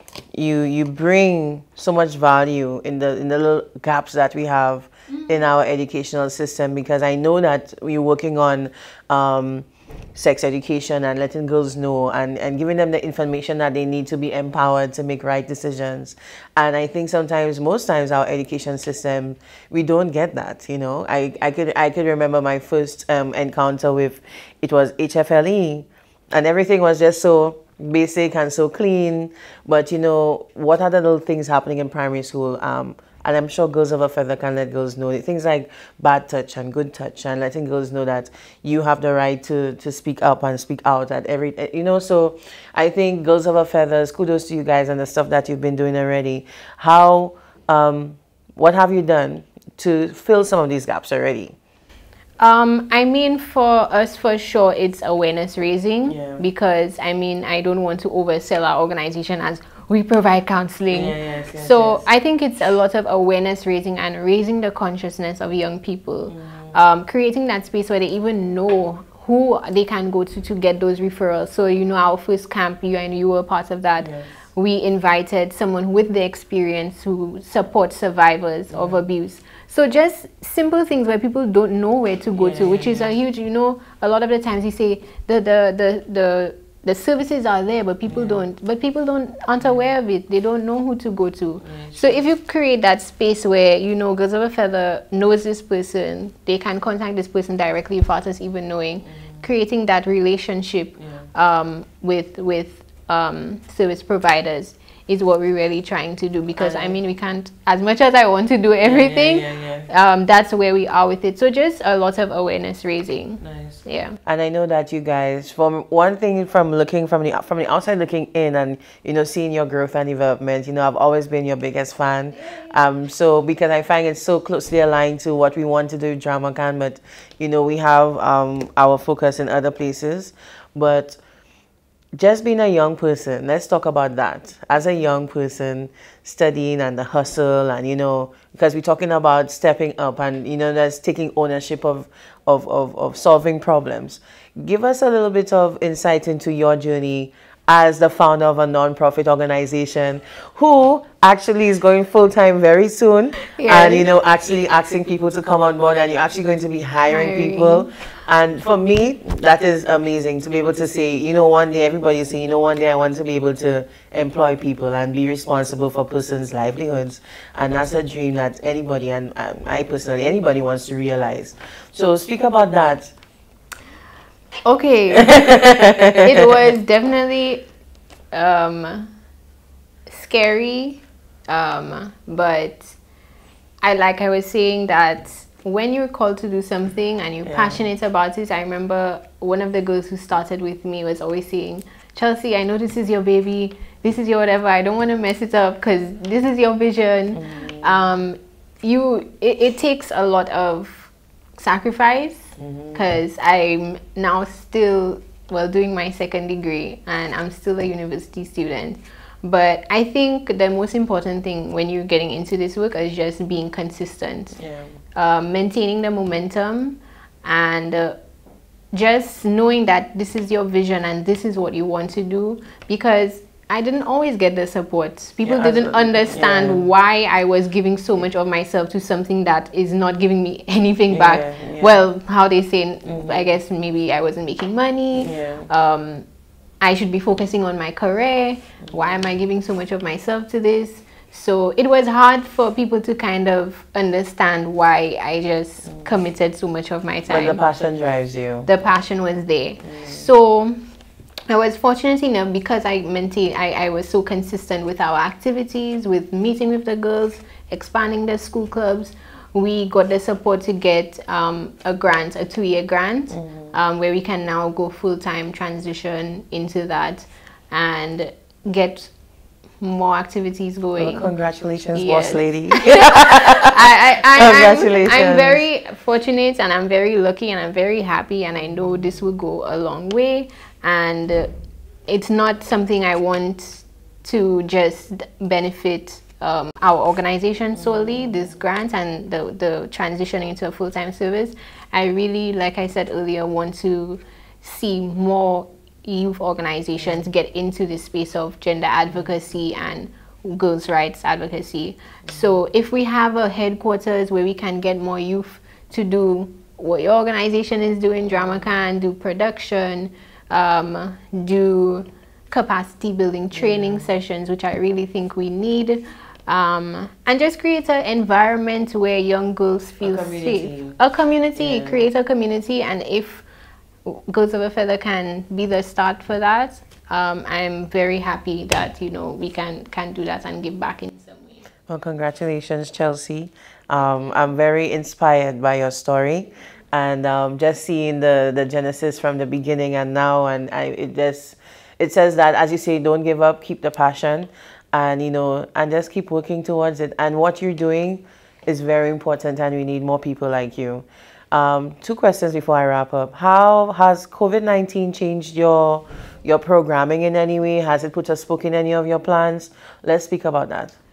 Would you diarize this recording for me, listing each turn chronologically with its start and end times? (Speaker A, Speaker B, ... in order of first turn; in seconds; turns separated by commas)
Speaker A: 0.3-51.5, Speaker B: 52.4-114.2, Speaker A: 56.1-56.4, Speaker A: 60.9-62.0, Speaker A: 66.3-66.8, Speaker A: 74.0-74.3, Speaker A: 78.7-79.0, Speaker A: 82.4-83.1, Speaker A: 88.1-88.4, Speaker A: 91.6-92.2, Speaker A: 99.1-99.4, Speaker A: 101.0-101.2, Speaker A: 106.5-107.0, Speaker A: 108.8-109.9, Speaker A: 113.4-131.2, Speaker A: 132.1-173.1, Speaker B: 153.5-154.1, Speaker B: 157.1-157.9, Speaker B: 174.6-177.7, Speaker A: 175.2-176.2, Speaker B: 178.3-179.1, Speaker B: 180.1-182.9, Speaker B: 183.8-214.6, Speaker A: 187.4-187.8, Speaker A: 197.3-198.0, Speaker A: 202.6-203.0, Speaker A: 214.6-214.9, Speaker B: 215.2-218.2, Speaker B: 218.9-236.2, Speaker A: 225.4-226.8, Speaker A: 231.1-232.0, Speaker A: 233.1-233.5, Speaker A: 235.2-235.7, Speaker B: 236.8-247.6, Speaker A: 247.3-248.7, Speaker B: 248.7-250.8, Speaker A: 249.8-250.2, Speaker B: 251.5-269.1, Speaker A: 263.3-263.7, Speaker B: 269.8-271.3, Speaker A: 271.0-273.8, Speaker B: 271.9-281.5, Speaker A: 274.3-275.6, Speaker B: 282.1-323.4, Speaker A: 287.8-288.4, Speaker A: 313.5-314.1, Speaker A: 320.0-320.9, Speaker A: 321.6-322.0, Speaker B: 324.0-331.6, Speaker A: 331.9-361.0